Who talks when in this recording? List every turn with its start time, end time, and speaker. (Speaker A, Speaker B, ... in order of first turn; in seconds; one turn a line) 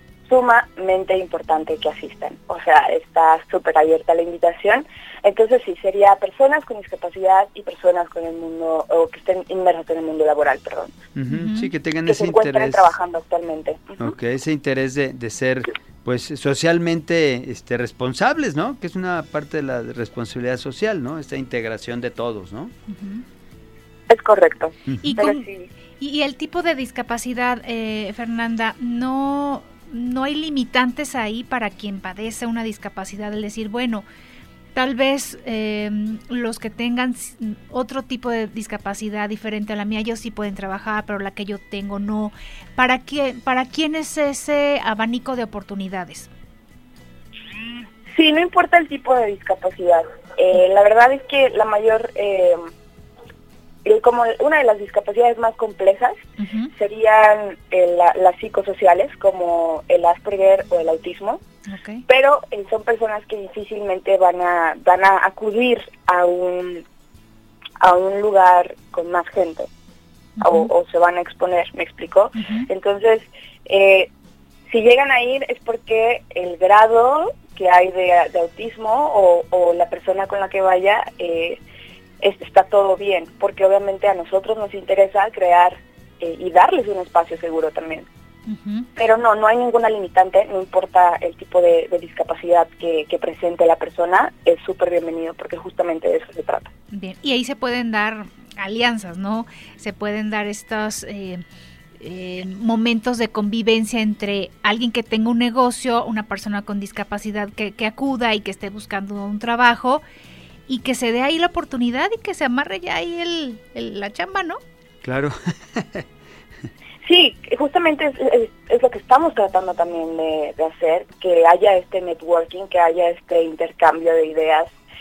Speaker A: 0.3-10.9
Speaker B: 11.2-12.9
Speaker C: 11.3-11.7
Speaker A: 12.1-14.0
Speaker B: 14.0-22.7
Speaker C: 22.9-23.2
Speaker A: 24.1-25.7
Speaker C: 25.0-25.5
Speaker C: 26.0-34.0
Speaker C: 34.8-46.3
Speaker A: 48.1-52.7
Speaker A: 53.9-56.2
Speaker C: 56.4-56.7
Speaker A: 56.7-61.4
Speaker C: 61.7-62.0
Speaker A: 62.1-66.8
Speaker A: 67.8-69.7
Speaker C: 70.4-70.7
Speaker A: 70.4-74.1
Speaker C: 72.4-72.7
Speaker A: 74.7-81.6
Speaker A: 82.2-88.1
Speaker C: 88.5-88.9
Speaker A: 89.0-96.7
Speaker C: 96.9-101.4
Speaker C: 102.0-110.0
Speaker C: 110.7-114.6
Speaker B: 115.0-116.0
Speaker A: 117.0-124.7